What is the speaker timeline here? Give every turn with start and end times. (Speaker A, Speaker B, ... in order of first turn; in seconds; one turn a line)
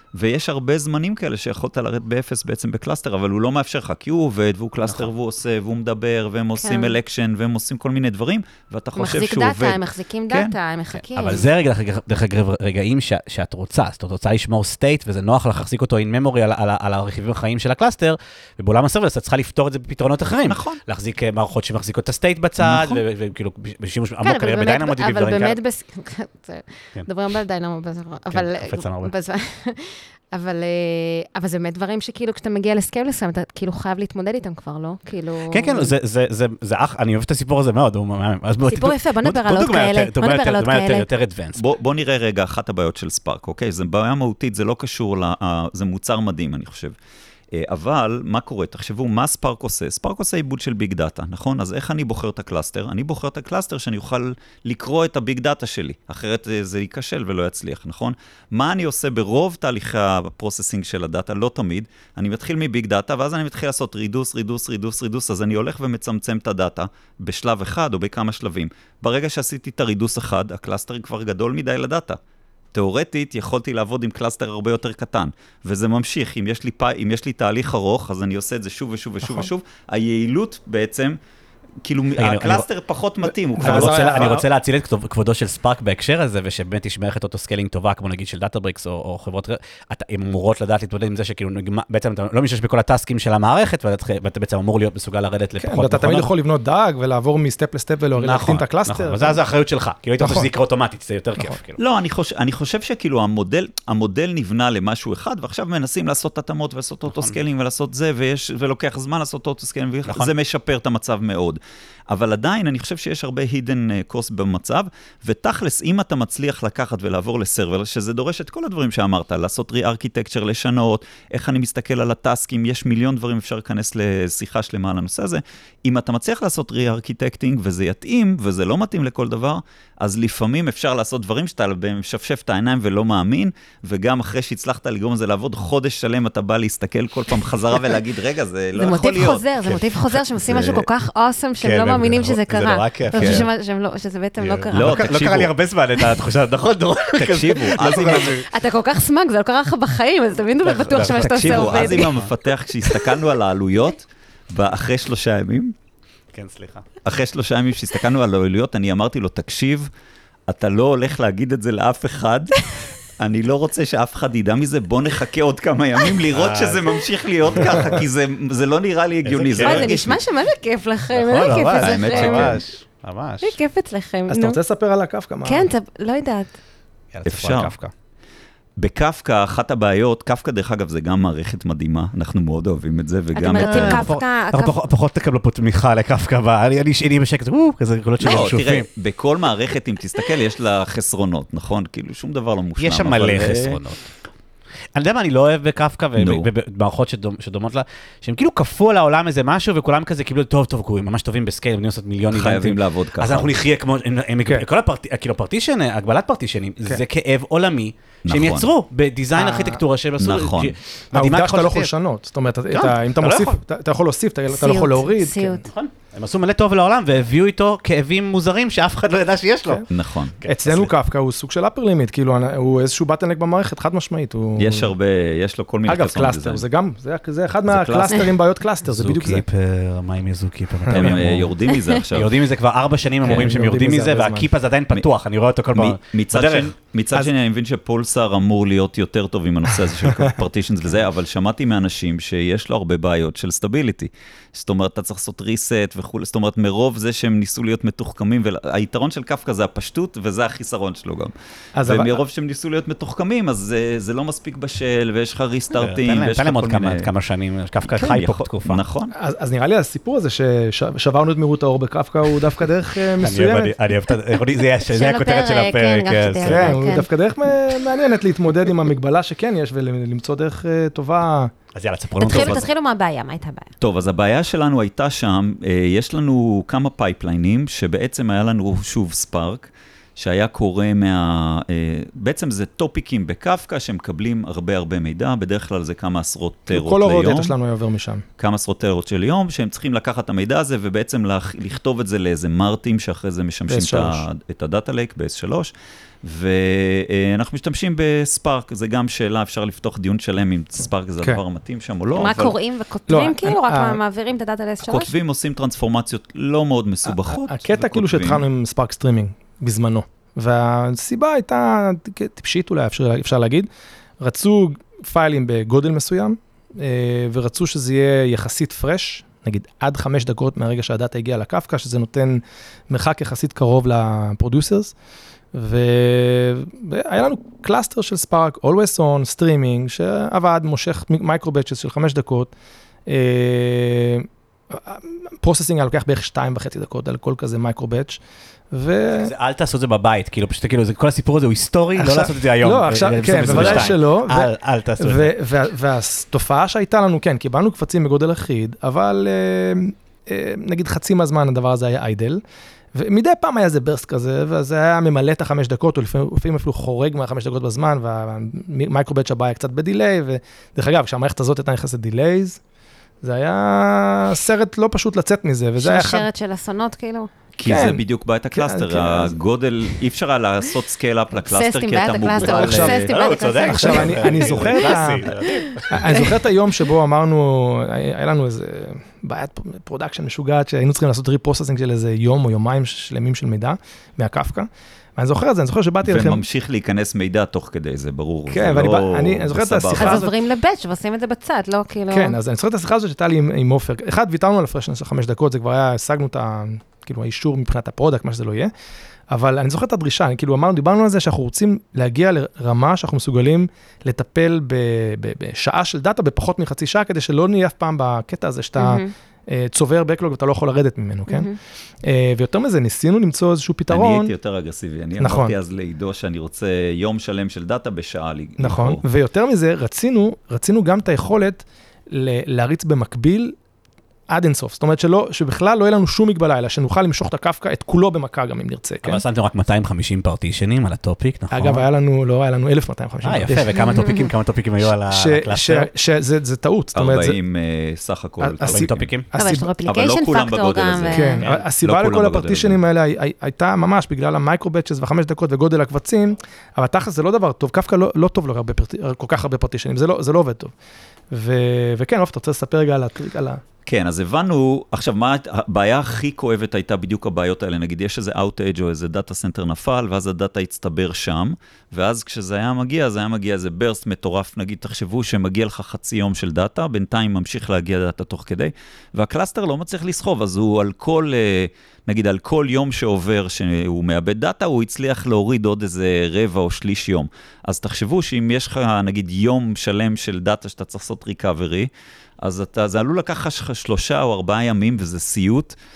Speaker A: 0.1-10.6
Speaker B: 6.6-7.0
Speaker B: 8.9-11.5
Speaker C: 10.9-25.6
Speaker A: 20.5-20.8
Speaker A: 22.6-23.0
Speaker B: 24.2-35.9
Speaker C: 28.3-29.1
Speaker C: 35.5-41.6
Speaker B: 38.7-41.1
Speaker A: 41.5-47.0
Speaker A: 47.5-72.2
Speaker A: 72.7-81.2
Speaker A: 81.8-84.3
Speaker C: 82.2-82.7
Speaker D: 83.3-84.5
Speaker C: 83.6-96.3
Speaker D: 95.6-99.4
Speaker C: 98.2-101.8
Speaker D: 100.2-100.5
Speaker A: 101.8-139.4
Speaker B: 138.8-145.1
Speaker C: 139.6-140.9
Speaker C: 141.6-143.5
Speaker A: 143.2-143.5
Speaker C: 144.4-148.5
Speaker A: 144.7-145.5
Speaker A: 147.1-148.4
Speaker B: 148.3-152.2
Speaker C: 150.6-152.3
Speaker A: 151.0-155.7
Speaker C: 156.3-156.9
Speaker A: 157.0-159.9
Speaker A: 160.5-170.2
Speaker C: 166.3-166.9
Speaker C: 167.4-168.0
Speaker C: 169.2-170.0
Speaker B: 169.6-172.6
Speaker C: 171.1-173.6
Speaker A: 171.4-172.6
Speaker B: 173.4-174.6
Speaker D: 174.3-175.7
Speaker B: 175.4-176.5
Speaker C: 177.1-177.9
Speaker A: 177.2-177.7
Speaker A: 178.8-184.1
Speaker B: 183.3-184.8
Speaker C: 183.5-188.9
Speaker A: 188.2-193.8
Speaker C: 192.8-194.1
Speaker C: 194.9-211.9
Speaker A: 196.2-196.5
Speaker A: 202.3-203.5
Speaker A: 208.2-208.7
Speaker D: 209.3-209.8
Speaker A: 210.2-210.7
Speaker D: 211.1-215.6
Speaker C: 212.7-213.6
Speaker B: 214.5-215.7
Speaker C: 215.7-219.8
Speaker A: 219.9-220.3
Speaker C: 220.4-220.9
Speaker D: 220.4-224.9
Speaker A: 224.6-226.6
Speaker D: 225.9-229.4
Speaker A: 227.7-228.3
Speaker C: 228.8-231.6
Speaker D: 230.9-231.2
Speaker A: 230.9-232.4
Speaker C: 232.1-236.7
Speaker D: 233.2-234.5
Speaker A: 233.2-233.6
Speaker A: 235.7-251.3
Speaker D: 240.1-240.3
Speaker D: 251.7-252.2
Speaker A: 251.8-257.1
Speaker C: 255.7-258.8
Speaker A: 257.9-259.1
Speaker D: 259.1-263.8
Speaker C: 263.2-266.8
Speaker B: 264.9-267.1
Speaker D: 266.4-271.5
Speaker C: 271.7-272.6
Speaker B: 272.2-273.7
Speaker A: 272.2-272.7
Speaker A: 273.8-287.5
Speaker D: 286.7-288.2
Speaker A: 288.4-295.7
Speaker D: 293.7-294.3
Speaker A: 296.2-302.6
Speaker B: 302.1-305.1
Speaker D: 303.1-304.0
Speaker A: 304.8-308.4
Speaker D: 307.1-313.7
Speaker D: 314.2-324.9
Speaker D: 325.5-332.5
Speaker D: 333.1-338.2
Speaker D: 338.7-339.3
Speaker C: 339.2-345.4
Speaker D: 342.0-352.4
Speaker A: 343.4-343.9
Speaker D: 352.9-362.6
Speaker D: 363.2-366.2
Speaker B: 365.8-367.3
Speaker A: 367.6-373.1
Speaker D: 367.6-369.3
Speaker B: 371.4-375.8
Speaker D: 372.4-373.0
Speaker C: 373.1-376.4
Speaker D: 373.6-375.3
Speaker D: 375.9-386.4
Speaker A: 386.0-390.3
Speaker D: 388.5-390.3
Speaker B: 390.0-392.4
Speaker D: 392.1-398.7
Speaker D: 399.3-411.5
Speaker B: 408.8-409.1
Speaker B: 411.3-411.6
Speaker D: 412.0-414.3
Speaker A: 413.9-419.0
Speaker D: 415.2-415.5
Speaker D: 418.6-423.6
Speaker D: 424.3-429.2
Speaker C: 429.0-431.8
Speaker D: 431.5-433.7
Speaker C: 433.2-435.9
Speaker B: 433.7-434.3
Speaker D: 434.9-437.4
Speaker A: 436.9-439.1
Speaker D: 438.4-439.7
Speaker C: 438.6-439.3
Speaker B: 439.4-441.4
Speaker A: 439.9-442.8
Speaker D: 441.1-450.7
Speaker D: 451.3-453.6
Speaker A: 453.9-481.9
Speaker A: 482.4-485.7